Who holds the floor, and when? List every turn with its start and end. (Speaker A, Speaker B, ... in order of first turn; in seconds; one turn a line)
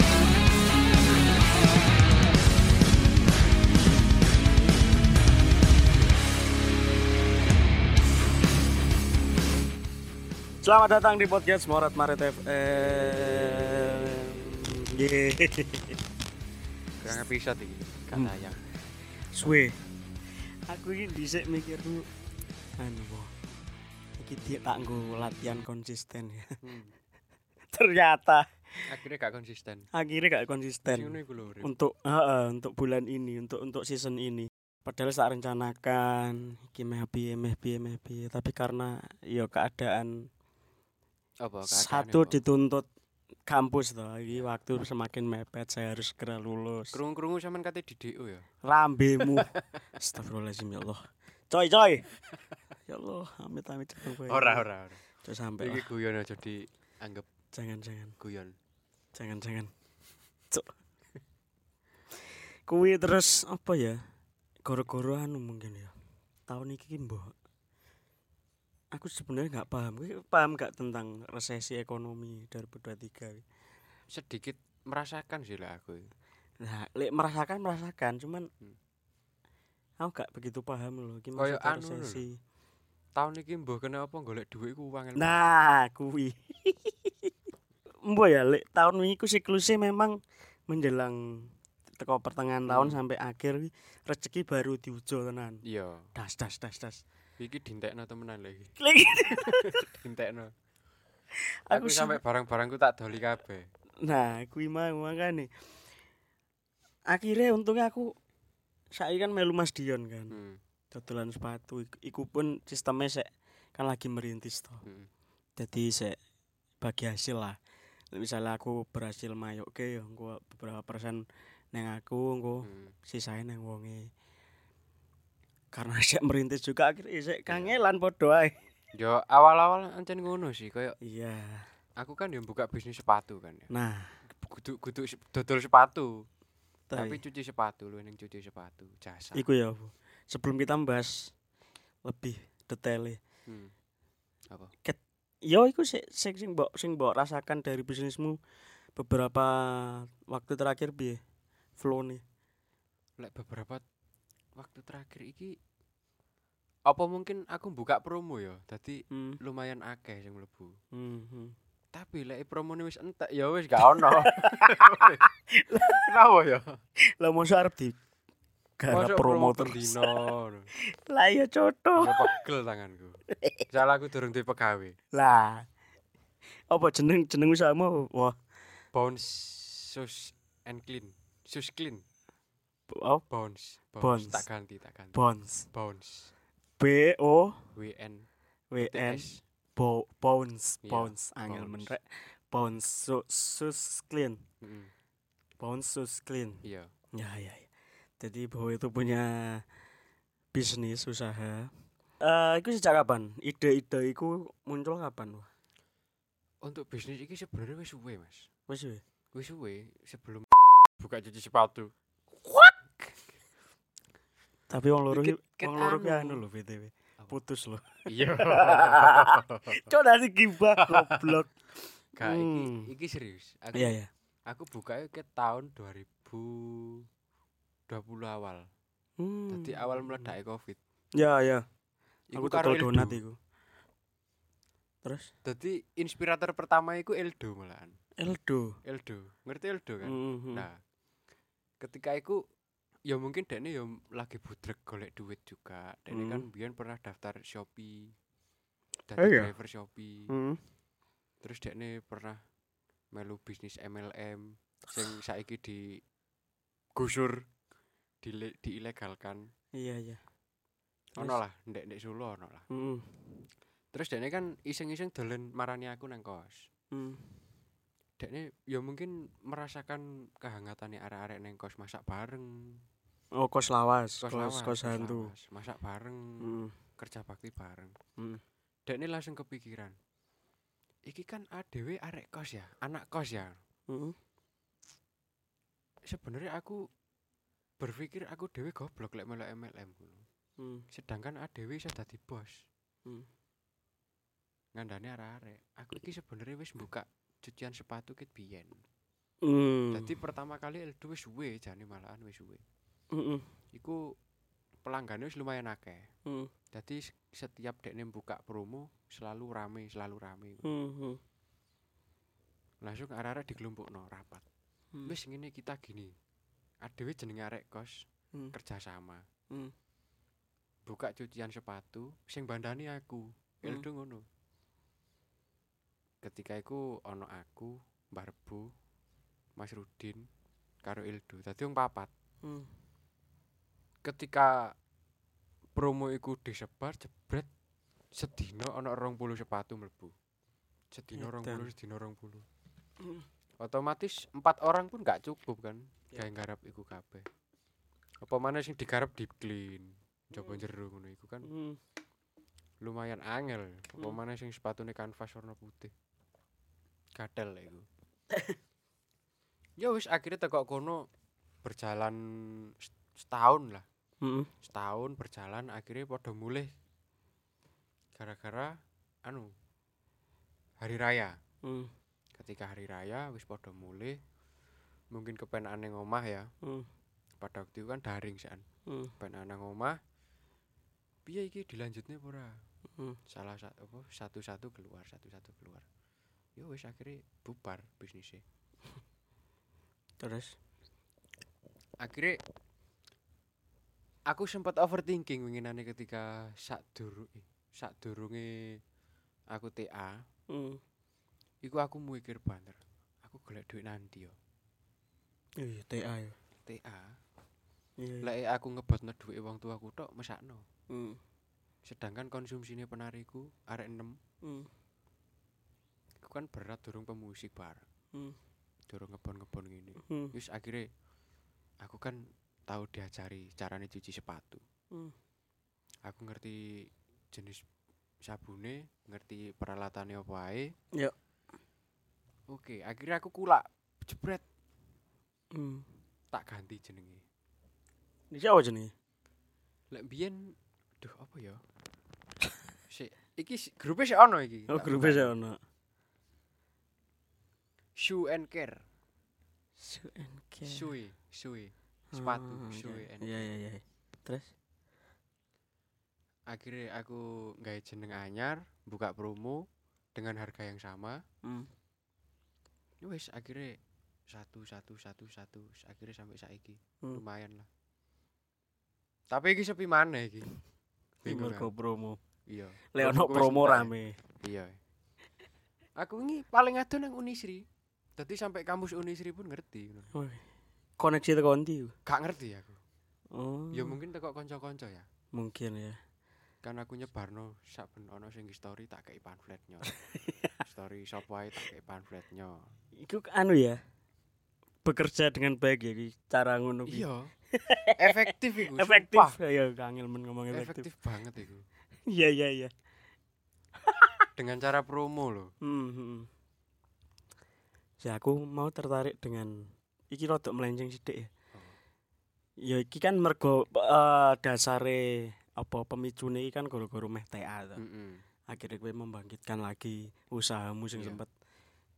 Speaker A: 10.6-16.0
Speaker B: 17.0-18.6
Speaker A: 19.3-19.8
Speaker A: 20.4-22.1
Speaker A: 22.8-23.3
Speaker A: 24.2-26.6
Speaker B: 26.6-26.9
Speaker A: 27.7-28.9
Speaker B: 28.9-29.9
Speaker A: 29.9-40.3
Speaker B: 30.9-31.7
Speaker B: 41.4-42.4
Speaker A: 41.7-42.9
Speaker A: 43.5-47.0
Speaker B: 46.9-48.5
Speaker A: 48.6-52.1
Speaker B: 49.2-49.6
Speaker A: 52.9-54.7
Speaker B: 54.1-55.0
Speaker A: 55.2-55.9
Speaker B: 55.6-57.3
Speaker A: 57.5-58.2
Speaker B: 58.2-58.5
Speaker A: 59.1-59.7
Speaker A: 60.5-60.8
Speaker A: 62.7-64.0
Speaker A: 64.7-65.9
Speaker A: 66.5-67.3
Speaker A: 68.9-73.4
Speaker B: 74.1-76.1
Speaker A: 76.6-78.5
Speaker A: 80.0-82.4
Speaker B: 81.4-82.2
Speaker B: 83.2-85.4
Speaker A: 85.2-87.3
Speaker A: 88.0-90.2
Speaker A: 90.7-95.6
Speaker B: 92.7-93.0
Speaker B: 95.7-96.1
Speaker A: 96.2-97.0
Speaker B: 97.4-98.7
Speaker A: 98.8-99.8
Speaker B: 99.3-100.5
Speaker A: 101.7-102.2
Speaker B: 101.7-103.7
Speaker A: 104.0-105.5
Speaker A: 107.1-108.1
Speaker A: 109.0-110.4
Speaker B: 110.3-110.6
Speaker A: 110.9-114.8
Speaker A: 115.6-116.2
Speaker A: 116.8-117.6
Speaker A: 118.1-124.1
Speaker B: 122.6-123.0
Speaker A: 125.7-128.6
Speaker B: 127.5-127.7
Speaker B: 128.9-131.0
Speaker A: 131.0-131.7
Speaker B: 132.0-133.7
Speaker A: 133.7-134.1
Speaker B: 134.3-136.2
Speaker A: 136.9-137.2
Speaker B: 136.9-139.4
Speaker A: 139.3-141.3
Speaker A: 142.1-143.2
Speaker B: 143.5-143.7
Speaker A: 144.8-148.4
Speaker A: 149.0-151.2
Speaker A: 151.8-152.2
Speaker B: 153.2-153.8
Speaker B: 154.6-155.5
Speaker B: 156.9-160.8
Speaker A: 159.1-159.4
Speaker A: 160.9-161.6
Speaker B: 161.9-166.8
Speaker A: 163.9-166.1
Speaker A: 167.2-168.0
Speaker A: 168.8-170.2
Speaker B: 168.9-170.7
Speaker A: 170.9-172.3
Speaker B: 172.0-175.0
Speaker A: 175.1-175.7
Speaker A: 176.7-178.4
Speaker B: 178.9-182.0
Speaker A: 182.9-183.2
Speaker B: 183.3-186.3
Speaker A: 184.0-184.5
Speaker A: 185.1-185.7
Speaker A: 186.8-187.7
Speaker B: 187.8-188.3
Speaker A: 188.7-194.4
Speaker B: 188.8-189.4
Speaker B: 190.8-191.9
Speaker B: 194.6-194.9
Speaker A: 195.6-196.6
Speaker B: 196.6-196.9
Speaker A: 197.1-197.7
Speaker A: 198.2-199.6
Speaker A: 200.5-205.5
Speaker B: 206.6-208.5
Speaker A: 208.7-209.0
Speaker B: 209.3-211.9
Speaker B: 212.9-213.2
Speaker A: 214.7-221.6
Speaker B: 215.1-216.4
Speaker B: 218.1-219.9
Speaker B: 220.8-221.4
Speaker B: 222.1-227.1
Speaker A: 222.2-222.9
Speaker A: 223.7-224.1
Speaker B: 227.9-228.7
Speaker A: 229.2-230.3
Speaker B: 229.5-230.8
Speaker A: 231.2-231.7
Speaker B: 232.3-233.2
Speaker A: 232.3-233.4
Speaker A: 235.0-235.3
Speaker B: 235.4-237.9
Speaker A: 238.2-238.7
Speaker B: 238.9-240.8
Speaker A: 240.0-240.7
Speaker B: 241.8-242.4
Speaker B: 243.1-248.1
Speaker A: 246.1-246.4
Speaker B: 249.1-250.3
Speaker A: 249.2-249.5
Speaker A: 250.3-250.6
Speaker B: 251.4-252.4
Speaker B: 253.1-256.0
Speaker B: 257.0-257.4
Speaker B: 258.2-259.4
Speaker A: 259.8-260.2
Speaker B: 261.2-262.7
Speaker A: 262.7-263.4
Speaker B: 263.9-266.7
Speaker A: 266.9-267.3
Speaker B: 268.2-272.8
Speaker A: 273.4-275.3
Speaker B: 274.2-277.9
Speaker A: 276.4-276.7
Speaker B: 278.9-279.9
Speaker B: 281.1-283.6
Speaker A: 283.9-284.2
Speaker B: 286.1-286.8
Speaker B: 287.8-290.2
Speaker A: 290.6-290.9
Speaker B: 290.9-292.6
Speaker B: 294.8-298.8
Speaker A: 299.4-300.1
Speaker B: 299.9-302.6
Speaker A: 303.1-303.5
Speaker B: 303.7-304.0
Speaker B: 304.8-306.1
Speaker A: 306.3-306.5
Speaker B: 306.7-310.6
Speaker A: 310.6-311.2
Speaker B: 312.8-314.4
Speaker B: 315.1-316.1
Speaker B: 316.8-319.2
Speaker B: 320.9-324.3
Speaker B: 326.2-328.7
Speaker B: 329.6-330.2
Speaker B: 330.8-332.1
Speaker A: 332.4-332.7
Speaker B: 334.0-334.7
Speaker B: 335.8-337.5
Speaker B: 338.1-340.1
Speaker B: 340.9-342.4
Speaker A: 341.2-341.7
Speaker B: 343.6-347.3
Speaker B: 348.2-351.5
Speaker A: 351.5-351.8
Speaker B: 352.8-355.9
Speaker B: 357.2-357.9
Speaker B: 359.8-361.0
Speaker B: 361.6-363.9
Speaker A: 364.2-364.5
Speaker B: 364.6-366.7
Speaker B: 368.2-368.7
Speaker B: 369.2-369.5
Speaker B: 370.8-371.4
Speaker A: 371.6-371.9
Speaker B: 372.4-374.2
Speaker B: 375.1-376.5
Speaker B: 377.4-378.6
Speaker A: 378.9-379.1
Speaker B: 379.2-380.0
Speaker B: 381.2-382.5
Speaker B: 383.3-385.9
Speaker B: 386.6-388.4
Speaker A: 390.2-390.5
Speaker B: 392.0-392.4
Speaker B: 394.3-398.5
Speaker B: 399.5-400.2
Speaker A: 400.5-400.8
Speaker B: 401.6-404.4
Speaker A: 405.6-406.4
Speaker B: 406.6-407.1
Speaker A: 408.0-408.3
Speaker B: 408.2-410.6
Speaker A: 410.9-411.2
Speaker B: 411.9-414.1
Speaker A: 414.4-414.7
Speaker B: 416.2-417.8
Speaker B: 418.9-420.9
Speaker A: 420.0-420.3
Speaker B: 421.8-424.6
Speaker B: 426.1-426.6
Speaker B: 427.3-427.6
Speaker B: 428.2-430.7
Speaker B: 432.5-434.4
Speaker A: 435.6-435.9
Speaker B: 436.3-437.2
Speaker A: 438.3-438.9
Speaker B: 439.9-441.6
Speaker B: 442.9-445.3
Speaker A: 444.7-445.6
Speaker B: 448.0-448.8
Speaker A: 449.8-450.9
Speaker B: 450.6-453.5
Speaker A: 452.1-454.5
Speaker B: 456.5-459.6
Speaker B: 460.1-461.2
Speaker A: 461.4-461.7
Speaker B: 463.0-463.8
Speaker B: 464.3-467.7
Speaker B: 469.3-470.5
Speaker B: 471.2-471.7
Speaker A: 471.2-472.2
Speaker B: 472.5-473.9
Speaker A: 472.9-474.1
Speaker B: 474.4-474.8
Speaker B: 476.0-477.6
Speaker B: 478.2-480.1
Speaker A: 480.1-480.4
Speaker A: 481.0-481.9
Speaker B: 482.1-482.8
Speaker A: 483.3-484.0
Speaker B: 483.7-485.1
Speaker A: 485.3-486.0
Speaker B: 486.6-489.9
Speaker B: 490.6-492.7
Speaker A: 493.0-493.8
Speaker A: 494.8-500.9
Speaker B: 496.9-497.3
Speaker B: 498.0-499.4
Speaker B: 500.5-501.6
Speaker A: 502.1-502.7
Speaker A: 503.8-504.3
Speaker B: 504.4-505.5
Speaker A: 505.6-506.3
Speaker A: 508.0-511.3
Speaker A: 512.7-517.8
Speaker B: 517.8-518.2
Speaker A: 518.5-521.3
Speaker B: 521.0-521.2